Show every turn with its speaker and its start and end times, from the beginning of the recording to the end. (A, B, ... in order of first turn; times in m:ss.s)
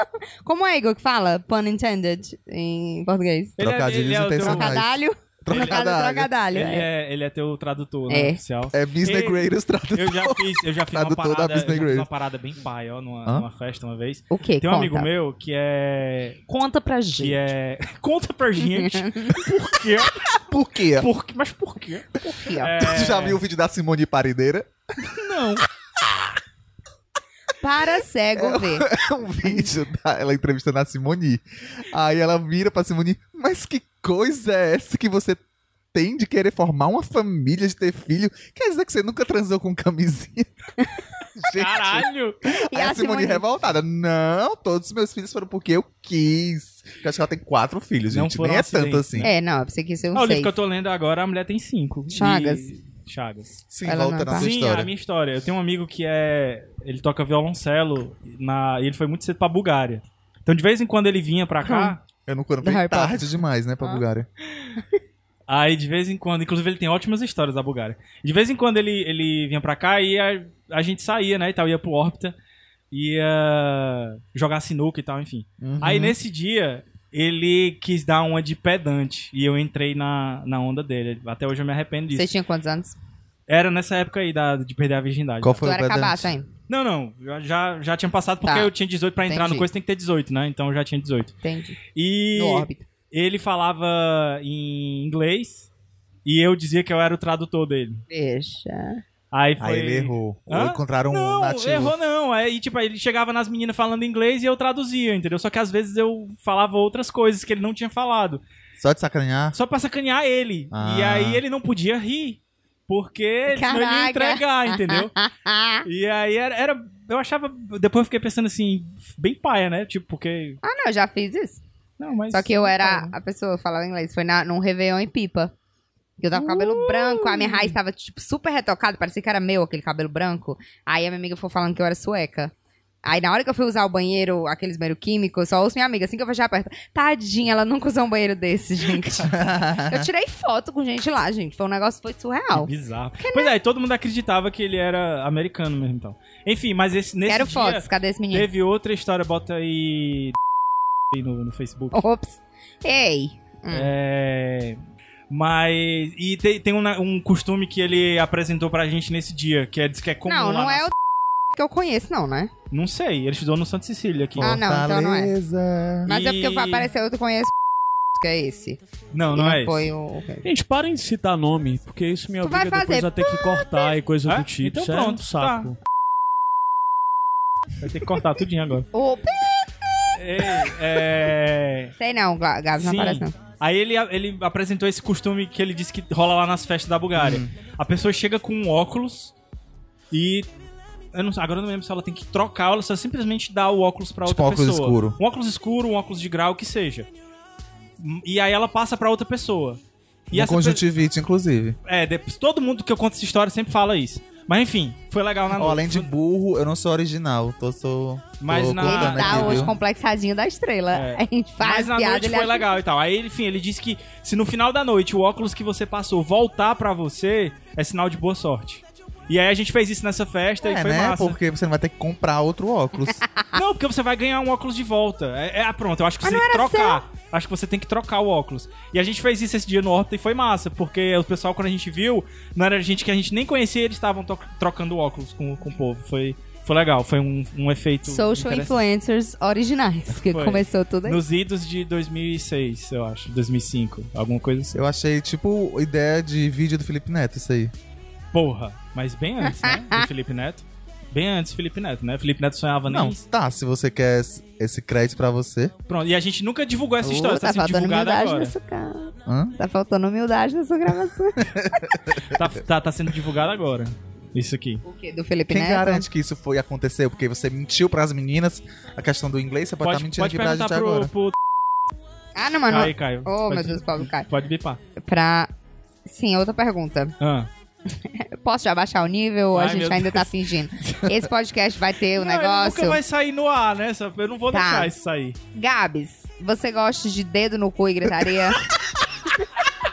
0:00.4-0:03.6 A
0:03.6-0:04.8 B
0:03.6-0:06.3 C
0:04.4-0:06.9 A
0:05.5-0:05.8 B
0:06.5-0:09.4 B
0:08.1-0:08.4 A
0:08.7-0:12.1 C
0:09.9-0:16.4 B
0:14.3-0:15.1 A
0:16.5-0:17.4 A
0:17.2-0:20.3 B
0:18.6-0:19.4 A
0:20.4-0:21.1 C
0:21.0-0:23.4 B
0:22.2-0:22.7 A
0:22.8-0:24.7 C
0:25.1-0:25.6 B
0:27.6-0:28.9 A
0:28.4-0:35.4 C
0:35.9-0:40.5 C
0:41.4-0:42.1 C
0:41.5-0:42.4 B
0:42.5-0:43.4 A
0:42.6-0:49.3 C
0:48.1-0:49.3 B
0:49.2-0:50.5 A
0:50.2-0:53.5 B
0:52.1-0:52.7 A
0:53.7-0:54.9 C
0:53.9-0:54.5 A
0:54.3-1:02.0 B
1:01.6-1:01.9 A
1:02.3-1:04.3 C
1:02.6-1:03.3 A
1:05.5-1:12.4 B
1:12.9-1:22.3 B
1:15.6-1:16.2 C
1:22.1-1:23.0 A
1:23.5-1:25.6 B
1:25.4-1:26.3 C
1:25.6-1:26.5 A
1:26.7-1:31.4 B
1:28.4-1:28.7 A
1:29.2-1:29.7 A
1:31.4-1:31.8 A
1:32.0-1:35.7 B
1:32.4-1:32.8 A
1:36.2-1:38.0 B
1:38.1-1:39.0 A
1:39.3-1:48.4 B
1:39.6-1:41.9 C
1:48.8-1:49.6 C
1:49.5-1:55.2 B
1:50.7-1:51.4 C
1:53.5-1:55.9 A
1:55.8-2:00.6 B
2:00.6-2:01.6 A
2:02.0-2:03.1 B
2:02.3-2:05.5 A
2:06.2-2:12.5 A
2:06.3-2:07.8 B
2:13.0-2:23.5 A
2:19.3-2:20.1 C
2:22.5-2:30.4 B
2:27.3-2:28.5 A
2:31.1-2:32.0 B
2:31.9-2:33.9 A
2:33.7-2:40.9 B
2:40.3-2:40.9 A
2:41.5-2:42.5 A
2:42.7-2:44.6 B
2:44.4-2:46.1 C
2:44.4-2:45.4 A
2:46.1-2:47.5 A
2:46.1-2:46.9 B
2:48.2-2:48.8 A
2:49.1-2:49.9 B
2:49.3-2:50.4 A
2:50.4-2:55.8 D
2:52.4-2:53.9 A
2:54.3-2:55.7 B
2:57.8-2:58.9 B
2:58.9-2:59.7 A
3:00.1-3:01.9 B
3:02.0-3:03.4 A
3:02.8-3:09.3 B
3:07.2-3:07.5 C
3:10.1-3:10.5 B
3:11.1-3:17.1 B
3:14.3-3:15.2 C
3:18.0-3:19.8 B
3:20.3-3:20.8 B
3:20.3-3:21.8 C
3:21.8-3:26.1 B
3:25.5-3:29.7 C
3:28.4-3:29.7 B
3:28.8-3:32.7 A
3:30.9-3:41.4 B
3:40.6-3:43.2 C
3:43.5-3:58.8 B
3:46.2-3:47.0 A
3:58.1-4:01.2 A
4:00.2-4:04.8 B
4:04.7-4:07.7 C
4:08.3-4:13.2 B
4:09.4-4:10.1 A
4:12.9-4:15.7 C
4:15.9-4:18.5 B
4:17.0-4:21.4 A
4:19.3-4:19.5 C
4:21.4-4:22.4 C
4:22.3-4:24.8 B
4:24.8-4:26.1 A
4:25.5-4:31.1 C
4:29.8-4:31.4 B
4:32.4-4:34.3 A
4:32.7-4:34.8 B
4:35.0-4:35.5 A
4:36.0-4:37.1 A
4:37.2-4:37.5 B
4:37.9-4:43.0 A
4:39.5-4:40.3 B
4:42.2-4:45.4 B
4:44.5-4:44.9 A
4:45.5-4:48.6 A